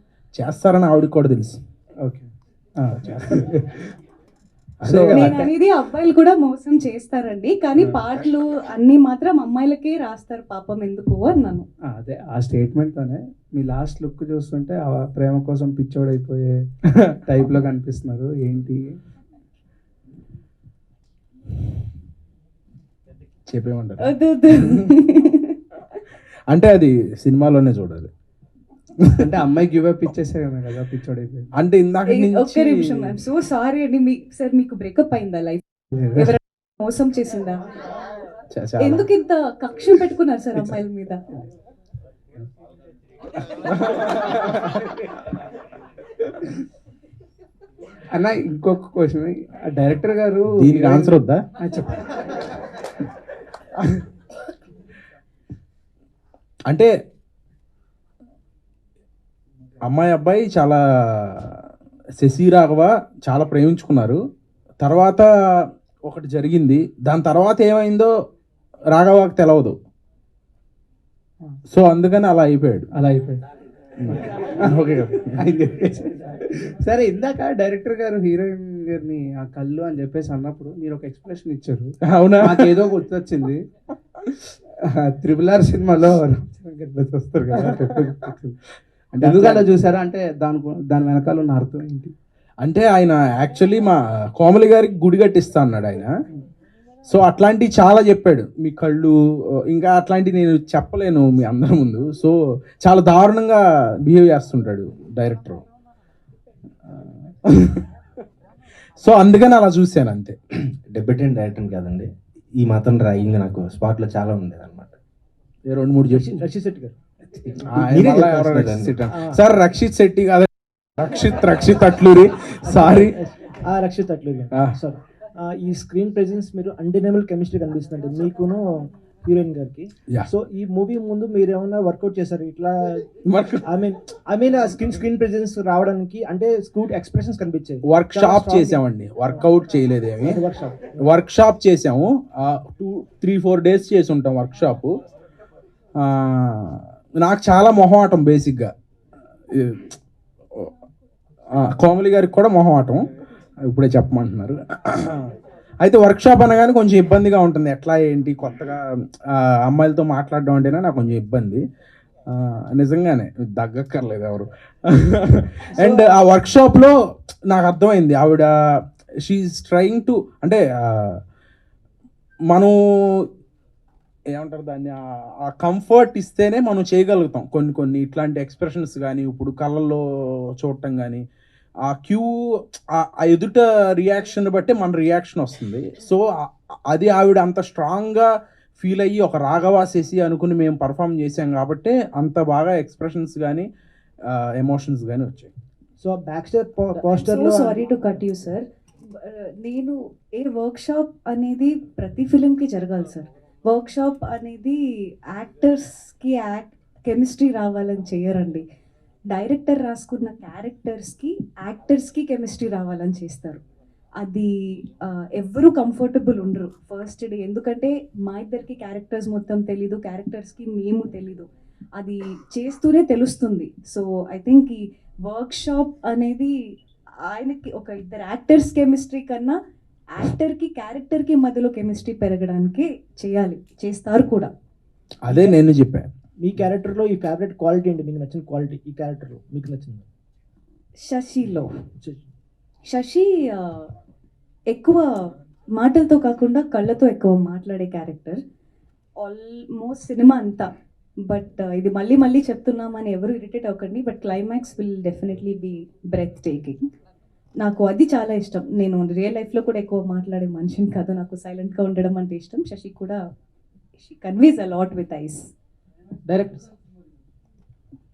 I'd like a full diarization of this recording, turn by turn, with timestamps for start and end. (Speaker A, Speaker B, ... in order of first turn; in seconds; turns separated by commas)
Speaker A: 0.3-1.6, Speaker B: 2.0-3.9, Speaker A: 3.0-3.4, Speaker A: 4.8-5.5, Speaker B: 4.8-5.5, Speaker C: 5.1-11.7, Speaker B: 11.9-16.6, Speaker B: 17.2-19.0, Speaker A: 23.5-24.9, Speaker C: 24.0-25.6, Speaker A: 26.5-28.1, Speaker B: 29.1-31.5, Speaker A: 31.6-33.1, Speaker C: 32.1-37.7, Speaker B: 35.9-36.3, Speaker A: 38.5-39.1, Speaker C: 38.8-41.3, Speaker A: 43.7-44.8, Speaker B: 48.1-52.0, Speaker A: 50.5-51.4, Speaker A: 59.8-61.6, Speaker A: 62.2-64.2, Speaker A: 64.8-65.3, Speaker A: 66.0-68.1, Speaker A: 68.9-69.7, Speaker A: 71.7-72.9, Speaker B: 72.9-73.4, Speaker A: 74.0-75.3, Speaker B: 74.1-74.7, Speaker B: 75.4-83.6, Speaker A: 82.1-82.9, Speaker B: 84.8-88.5, Speaker A: 89.1-89.7, Speaker B: 89.2-92.1, Speaker A: 92.6-96.1, Speaker A: 97.1-99.1, Speaker A: 99.7-105.6, Speaker A: 106.8-107.8, Speaker A: 109.0-110.3, Speaker D: 110.9-115.0, Speaker A: 115.7-116.4, Speaker E: 116.1-116.9, Speaker D: 117.4-119.0, Speaker A: 117.6-123.2, Speaker E: 119.1-119.4, Speaker E: 122.6-133.0, Speaker A: 133.2-133.7, Speaker E: 133.6-139.4, Speaker A: 137.9-140.4, Speaker E: 140.2-141.1, Speaker A: 141.0-144.9, Speaker A: 146.0-148.7, Speaker A: 149.5-150.0, Speaker A: 151.5-153.0, Speaker A: 153.7-155.3, Speaker A: 155.8-161.6, Speaker A: 162.3-166.9, Speaker A: 167.5-168.5, Speaker A: 169.2-171.2, Speaker A: 172.5-173.2, Speaker A: 174.3-180.0, Speaker A: 180.6-181.2, Speaker A: 181.8-182.3, Speaker A: 182.9-186.3, Speaker A: 186.9-193.7, Speaker A: 194.3-195.5, Speaker E: 196.0-197.9, Speaker C: 197.0-204.8, Speaker C: 205.3-208.6, Speaker C: 209.3-213.6, Speaker C: 214.2-226.5, Speaker C: 227.2-229.6, Speaker C: 230.1-234.5, Speaker A: 235.2-236.1, Speaker E: 236.4-240.1, Speaker C: 241.0-241.7, Speaker E: 242.0-242.3, Speaker C: 242.9-243.9, Speaker C: 244.7-248.4, Speaker C: 249.2-250.7, Speaker C: 251.3-256.8, Speaker C: 257.6-263.2, Speaker C: 263.9-265.4, Speaker E: 266.2-266.6